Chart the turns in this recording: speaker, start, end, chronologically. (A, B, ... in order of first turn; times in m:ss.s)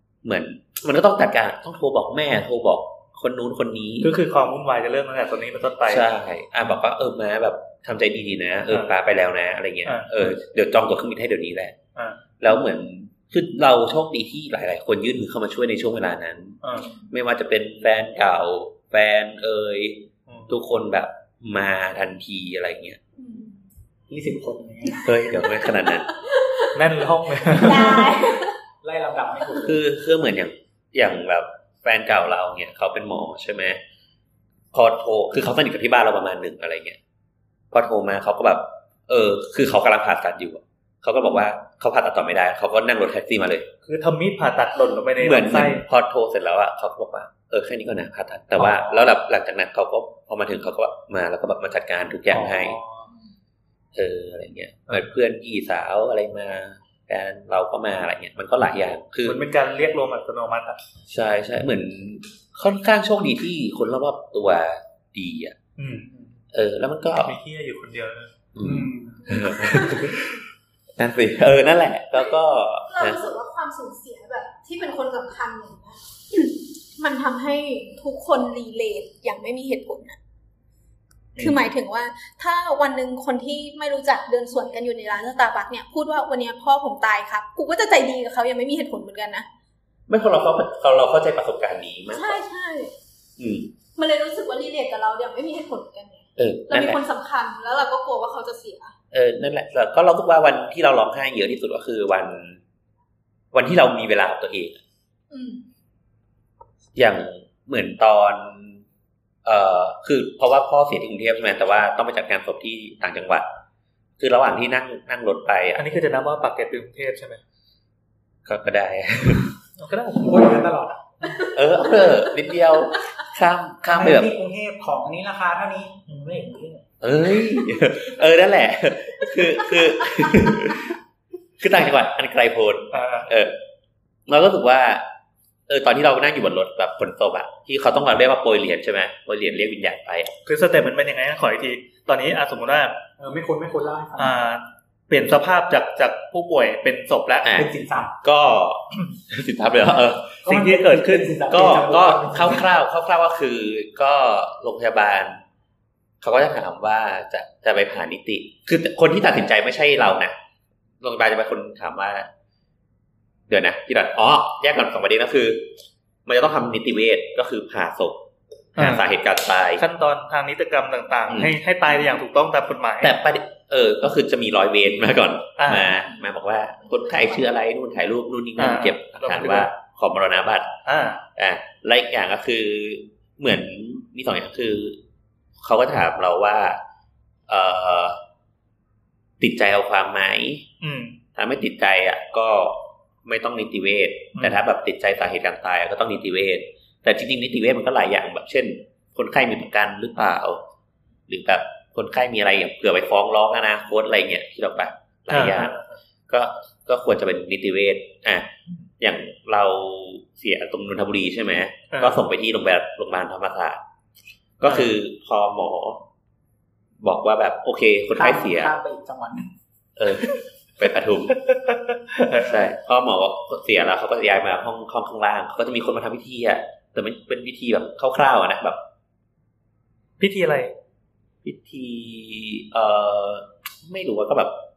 0:00.2-0:04.1 A
0:04.0-0:06.0 B
0:05.9-0:11.8 A
0:09.8-0:10.3 B
0:12.0-0:12.2 B
0:12.4-0:23.0 A
0:16.6-0:16.9 B
0:16.7-0:17.1 C
0:23.2-0:23.6 C
0:24.1-0:25.1 D
0:25.0-0:26.1 A
0:25.4-0:26.8 C
0:26.7-0:28.1 B
0:27.5-0:28.6 C
0:28.8-0:29.8 D
0:29.6-0:33.8 A
0:34.7-0:37.0 A
0:37.7-0:43.7 A
0:43.8-0:45.8 B
0:45.2-0:52.8 A
0:48.6-0:49.1 B
0:52.3-0:53.1 B
0:53.9-0:59.4 A
0:59.2-1:00.8 B
1:01.1-1:05.6 A
1:05.8-1:06.1 B
1:06.5-1:07.4 A
1:07.2-1:08.3 B
1:08.5-1:10.4 A
1:08.6-1:09.2 D
1:09.2-1:10.2 C
1:11.0-1:13.2 A
1:12.9-1:20.2 C
1:21.4-1:29.5 C
1:30.1-1:32.4 A
1:32.1-1:32.9 C
1:33.4-1:33.7 A
1:34.0-1:38.9 C
1:36.4-1:37.0 A
1:39.1-1:42.6 A
1:43.5-1:44.8 A
1:45.3-1:45.6 C
1:47.0-1:48.8 A
1:49.4-1:53.4 A
1:54.2-1:55.8 A
1:55.8-1:57.4 B
1:58.4-1:59.5 A
1:59.8-2:00.6 B
2:00.2-2:01.3 D
2:01.5-2:04.3 A
2:03.9-2:06.8 D
2:07.0-2:11.0 A
2:11.6-2:13.6 A
2:12.9-2:13.3 B
2:14.3-2:15.1 A
2:15.7-2:20.3 A
2:20.4-2:23.0 B
2:23.2-2:24.4 D
2:24.2-2:27.5 B
2:27.4-2:27.7 A
2:27.5-2:28.1 D
2:28.2-2:30.4 A
2:30.4-2:32.7 D
2:30.5-2:31.6 B
2:31.5-2:35.4 A
2:36.2-2:40.3 A
2:41.0-2:42.3 A
2:43.5-2:45.7 A
2:46.2-2:48.2 A
2:48.7-2:49.8 A
2:48.8-2:49.0 B
2:49.8-2:53.1 B
2:51.3-2:51.5 A
2:53.0-3:00.7 A
2:55.6-2:55.9 B
2:56.8-2:57.4 C
2:58.6-2:59.7 B
3:00.8-3:01.2 B
3:01.4-3:05.0 A
3:05.6-3:06.8 A
3:07.5-3:08.2 A
3:09.4-3:10.6 A
3:10.8-3:11.2 B
3:11.4-3:20.6 A
3:21.3-3:25.7 A
3:25.3-3:25.8 B
3:26.3-3:33.8 A
3:31.9-3:32.2 B
3:34.6-3:36.0 A
3:34.6-3:34.9 B
3:37.0-3:38.7 A
3:38.1-3:39.5 D
3:40.0-3:41.4 A
3:41.3-3:42.6 B
3:42.4-3:48.8 A
3:50.2-3:50.7 B
3:51.4-3:54.6 A